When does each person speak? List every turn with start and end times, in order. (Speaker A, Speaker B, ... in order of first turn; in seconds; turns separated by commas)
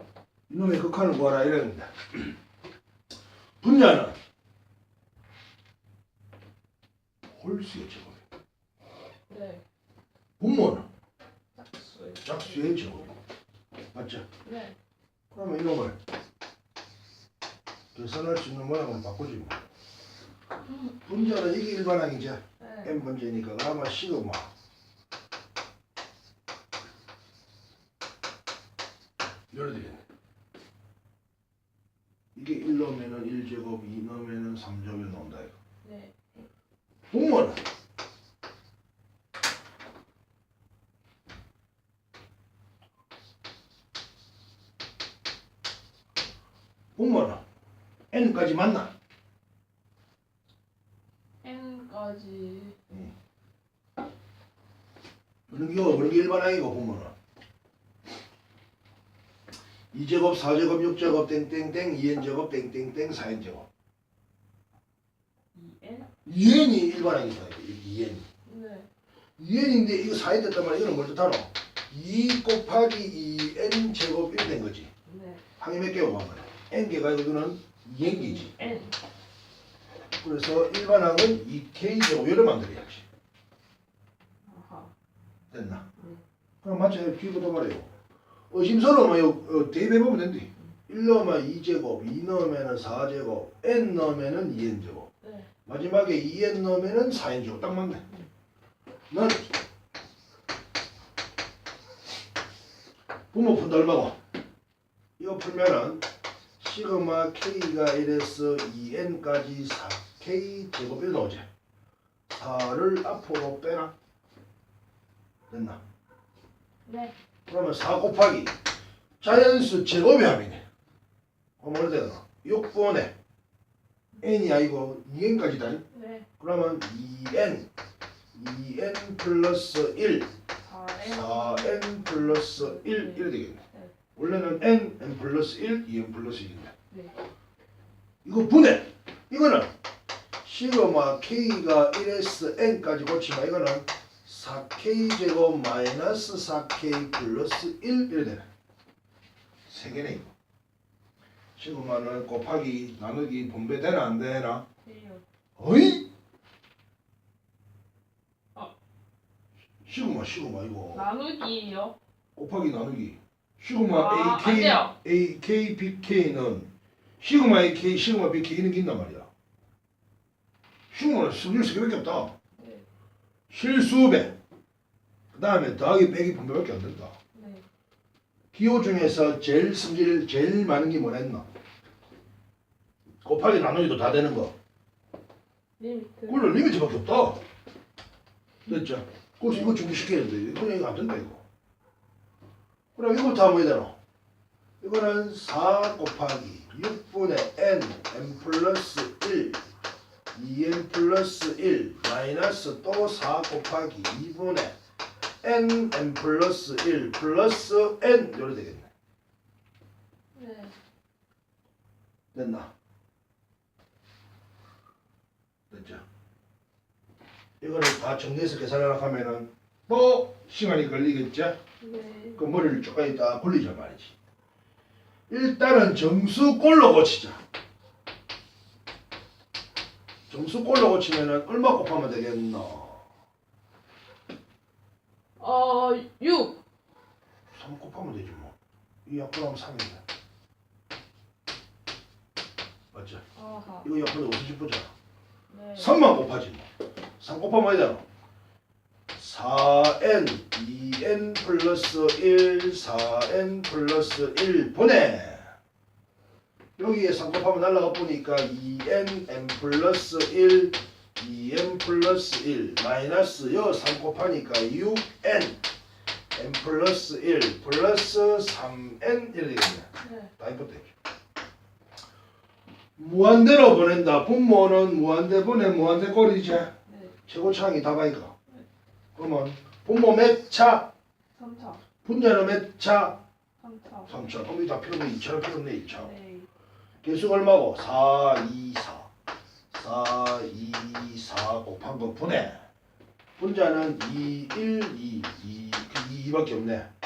Speaker A: 0.5-2.3, Speaker A: 3.6-4.2, Speaker A: 7.3-8.2, Speaker B: 9.3-9.6, Speaker A: 10.4-10.8, Speaker B: 11.5-12.8, Speaker A: 12.2-13.1, Speaker A: 13.9-14.2, Speaker B: 14.4-14.7, Speaker A: 15.3-15.9, Speaker A: 17.9-19.6, Speaker A: 21.0-24.5, Speaker B: 22.6-22.9, Speaker A: 29.5-30.0, Speaker A: 32.3-35.5, Speaker B: 35.8-36.1, Speaker A: 37.1-37.6, Speaker A: 47.0-47.4, Speaker A: 48.1-48.9, Speaker B: 51.4-52.7, Speaker A: 55.5-57.1, Speaker A: 59.9-63.7, Speaker B: 65.5-66.1, Speaker A: 66.2-68.2, Speaker B: 68.5-68.9, Speaker A: 69.4-74.9, Speaker B: 75.1-75.4, Speaker A: 75.6-78.5, Speaker B: 78.0-79.0, Speaker A: 80.2-83.0, Speaker B: 84.5-84.9, Speaker A: 85.5-85.8, Speaker A: 86.6-87.9, Speaker A: 88.5-95.1, Speaker B: 95.2-95.5, Speaker A: 95.7-98.0, Speaker A: 99.1-99.4, Speaker A: 103.3-104.2, Speaker A: 105.2-106.0, Speaker A: 106.6-111.4, Speaker A: 112.3-113.9, Speaker A: 115.5-115.8, Speaker B: 116.8-117.1, Speaker A: 117.5-118.5, Speaker A: 119.2-120.6, Speaker A: 121.6-123.1, Speaker A: 124.2-125.8, Speaker B: 125.9-126.2, Speaker A: 126.4-127.7, Speaker A: 128.3-130.3, Speaker B: 130.6-133.9, Speaker A: 131.0-133.6, Speaker A: 134.2-136.7, Speaker A: 138.2-139.7, Speaker A: 140.4-148.4, Speaker A: 149.7-150.3, Speaker A: 151.6-154.6, Speaker B: 154.8-155.2, Speaker A: 155.6-156.1, Speaker A: 159.8-161.0, Speaker B: 160.9-161.9, Speaker A: 162.3-166.7, Speaker B: 163.9-164.9, Speaker A: 167.2-169.3, Speaker A: 170.9-172.3, Speaker B: 172.6-172.8, Speaker A: 173.5-174.3, Speaker A: 175.3-177.1, Speaker B: 177.3-177.6, Speaker A: 178.5-181.4, Speaker A: 183.2-184.5, Speaker B: 185.8-186.6, Speaker A: 186.3-187.4, Speaker A: 188.7-191.4, Speaker A: 192.9-193.9, Speaker A: 194.8-199.6, Speaker A: 200.3-204.7, Speaker A: 205.4-208.9, Speaker B: 210.3-210.7, Speaker A: 212.3-212.7, Speaker A: 215.7-216.0, Speaker A: 217.6-221.6, Speaker B: 221.8-222.5, Speaker A: 222.4-224.1, Speaker A: 225.3-227.4, Speaker A: 230.3-233.0, Speaker B: 235.4-236.6, Speaker A: 237.5-238.5, Speaker A: 239.1-240.0, Speaker A: 242.9-243.2, Speaker B: 243.3-243.9, Speaker A: 243.8-244.9, Speaker B: 245.5-246.0, Speaker A: 245.7-246.7, Speaker A: 247.2-248.0, Speaker A: 249.1-255.5, Speaker A: 256.8-265.6, Speaker A: 266.3-270.9, Speaker B: 270.0-270.3, Speaker A: 273.0-276.7, Speaker B: 276.9-277.1, Speaker A: 277.3-278.3, Speaker A: 279.1-280.9, Speaker B: 281.3-281.8, Speaker A: 282.0-283.2, Speaker B: 283.6-284.1, Speaker A: 284.1-286.1, Speaker B: 285.9-286.5, Speaker A: 287.0-289.1, Speaker A: 289.7-292.6, Speaker A: 293.4-296.9